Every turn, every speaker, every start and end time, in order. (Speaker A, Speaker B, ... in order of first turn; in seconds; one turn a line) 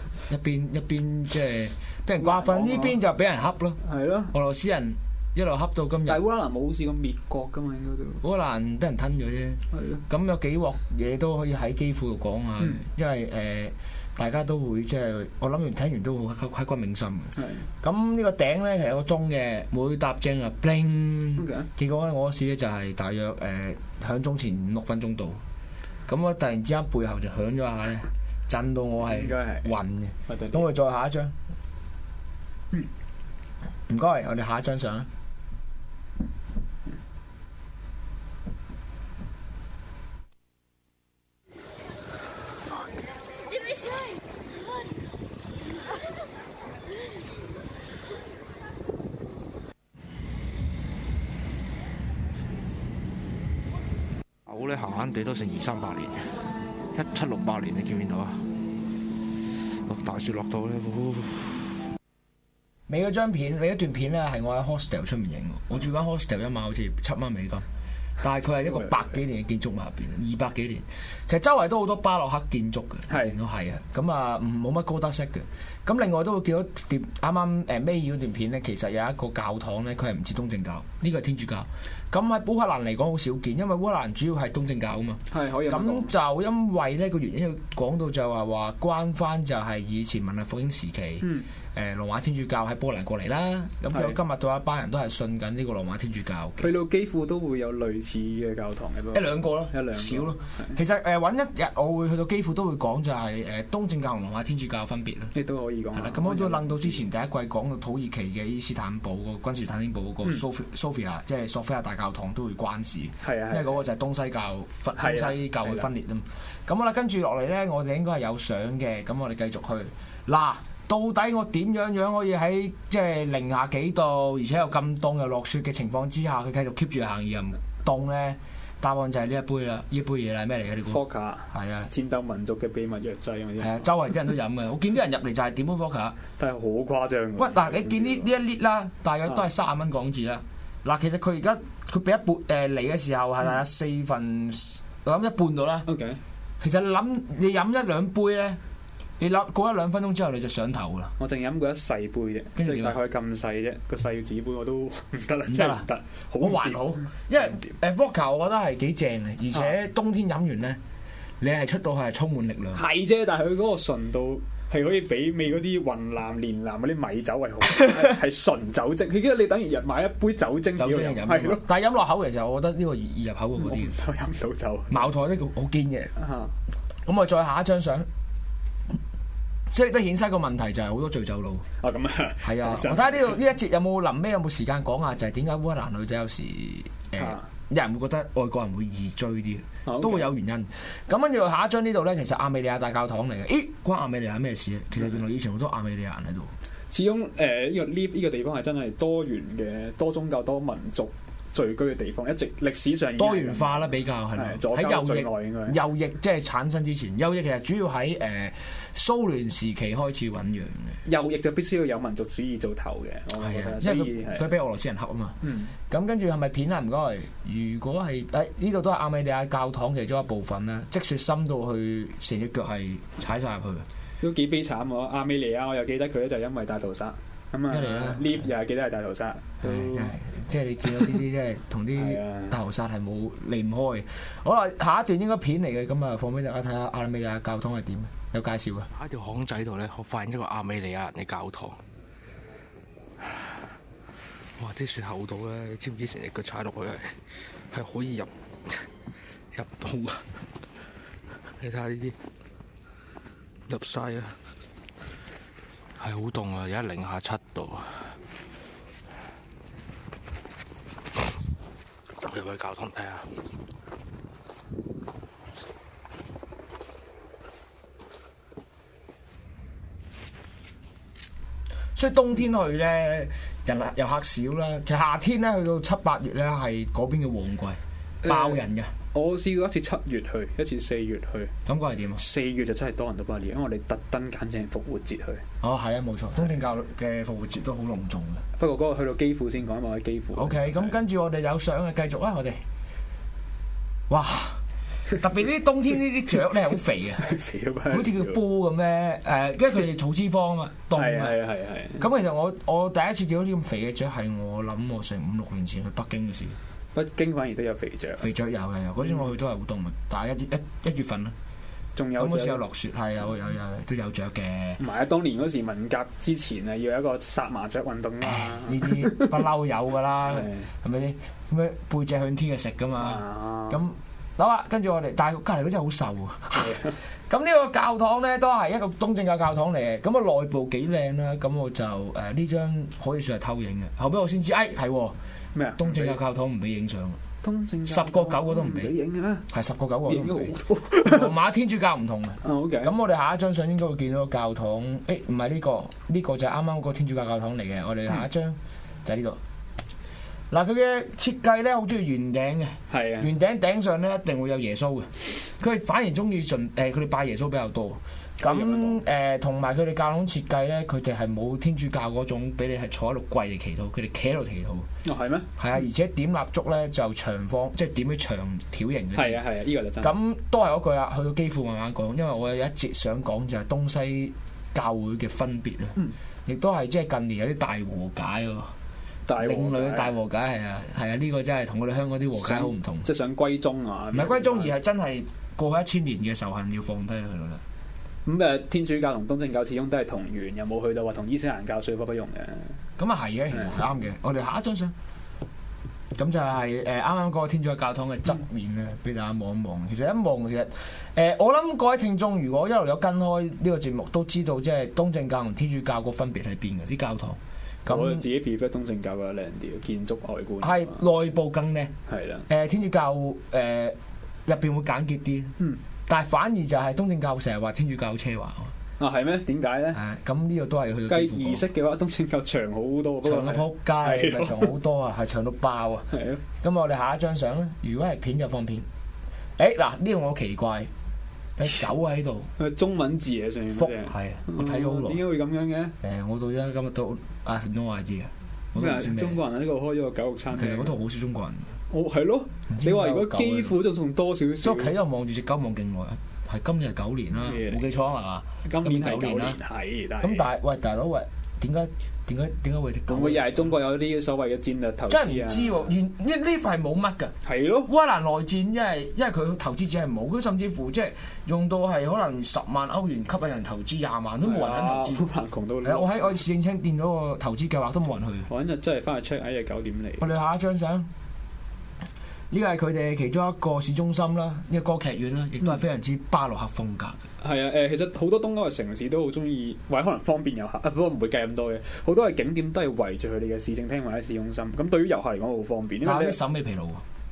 Speaker A: 0.3-3.8
Speaker B: 2.2-3.0
Speaker B: 3.8-4.3
Speaker A: 4.3-6.2
Speaker B: 6.1-8.2
Speaker A: 8.2-25.4
Speaker B: 9.7-10.0
Speaker B: 17.4-17.7
Speaker B: 21.4-21.7
Speaker A: 26.1-31.3
Speaker B: 29.0-29.8
Speaker B: 30.3-30.7
Speaker A: 33.9-35.1
Speaker C: 54.5-56.3
Speaker C: 56.9-58.4
Speaker C: 59.9-61.7
Speaker A: 62.9-67.7
Speaker A: 68.2-96.7
Speaker B: 68.6-69.0
Speaker B: 73.1-73.4
Speaker B: 85.3-86.1
Speaker B: 91.2-91.5
Speaker B: 93.9-94.2
Speaker B: 96.6-100.8
Speaker A: 99.1-105.3
Speaker B: 105.3-107.1
Speaker A: 106.0-131.9
Speaker B: 113.2-113.8
Speaker B: 115.0-115.9
Speaker B: 130.9-133.9
Speaker A: 133.6-136.2
Speaker B: 136.4-138.3
Speaker A: 137.4-145.9
Speaker B: 145.9-146.2
Speaker A: 146.6-148.6
Speaker A: 149.2-151.1
Speaker B: 151.2-157.7
Speaker A: 152.6-153.0
Speaker A: 155.5-155.8
Speaker A: 156.4-160.8
Speaker A: 161.4-162.8
Speaker B: 162.7-171.7
Speaker A: 170.8-174.0
Speaker B: 173.6-175.1
Speaker A: 174.9-176.1
Speaker B: 176.2-176.5
Speaker A: 177.1-178.1
Speaker A: 179.7-181.7
Speaker B: 181.8-183.4
Speaker A: 182.4-196.5
Speaker B: 187.2-187.5
Speaker B: 189.9-190.3
Speaker B: 196.9-205.8
Speaker A: 203.2-211.0
Speaker B: 211.1-214.5
Speaker A: 213.4-223.9
Speaker B: 215.4-215.7
Speaker B: 224.2-230.2
Speaker A: 227.7-228.3
Speaker A: 229.6-238.9
Speaker B: 231.9-232.6
Speaker C: 238.9-241.8
Speaker C: 244.6-247.2
Speaker C: 247.7-248.8
Speaker C: 249.5-250.2
Speaker C: 251.6-252.2
Speaker C: 253.7-254.3
Speaker C: 256.0-257.9
Speaker C: 262.2-263.3
Speaker A: 271.9-278.9
Speaker B: 278.2-281.5
Speaker A: 281.7-282.2
Speaker B: 282.2-285.4
Speaker A: 285.6-288.4
Speaker B: 288.6-291.0
Speaker A: 290.4-292.6
Speaker A: 294.1-294.6
Speaker A: 295.2-297.3
Speaker B: 297.2-298.4
Speaker A: 297.9-301.4
Speaker B: 300.9-302.1
Speaker A: 302.0-306.6
Speaker B: 306.9-308.3
Speaker A: 308.2-311.3
Speaker B: 312.0-312.6
Speaker A: 312.2-314.8
Speaker B: 314.8-319.4
Speaker A: 318.2-326.8
Speaker B: 320.2-320.7
Speaker B: 323.0-323.8
Speaker B: 326.5-327.0
Speaker A: 327.3-335.2
Speaker B: 335.5-336.2
Speaker A: 335.8-337.2
Speaker B: 337.4-339.5
Speaker A: 337.9-338.9
Speaker A: 339.5-349.4
Speaker B: 340.1-341.4
Speaker B: 342.4-342.9
Speaker A: 350.5-364.9
Speaker B: 352.9-353.3
Speaker B: 358.4-359.0
Speaker B: 365.1-365.5
Speaker A: 365.6-369.5
Speaker B: 369.1-370.2
Speaker A: 370.0-378.7
Speaker B: 379.3-380.1
Speaker A: 379.4-383.1
Speaker B: 382.4-384.7
Speaker A: 384.1-387.6
Speaker B: 388.2-392.8
Speaker A: 393.0-394.9
Speaker B: 393.5-393.8
Speaker A: 396.1-408.2
Speaker B: 407.9-411.0
Speaker A: 410.6-411.9
Speaker B: 412.1-412.5
Speaker A: 412.5-415.6
Speaker A: 416.1-418.7
Speaker B: 419.0-420.0
Speaker A: 419.9-421.7
Speaker B: 421.1-424.8
Speaker A: 423.2-428.9
Speaker B: 426.1-426.4
Speaker A: 429.6-430.9
Speaker A: 431.6-432.5
Speaker B: 432.6-435.9
Speaker A: 433.8-435.2
Speaker A: 436.0-439.4
Speaker B: 438.8-441.0
Speaker A: 440.5-441.7
Speaker B: 441.9-445.0
Speaker A: 442.7-443.8
Speaker A: 444.6-449.6
Speaker B: 447.4-447.9
Speaker B: 448.6-450.5
Speaker A: 450.2-453.7
Speaker B: 453.1-455.9
Speaker A: 455.1-457.3
Speaker B: 457.4-457.9
Speaker A: 457.9-465.3
Speaker B: 464.4-466.4
Speaker A: 465.8-468.5
Speaker B: 468.5-470.3
Speaker A: 470.2-471.1
Speaker A: 472.5-477.2
Speaker B: 477.4-486.4
Speaker A: 486.0-487.0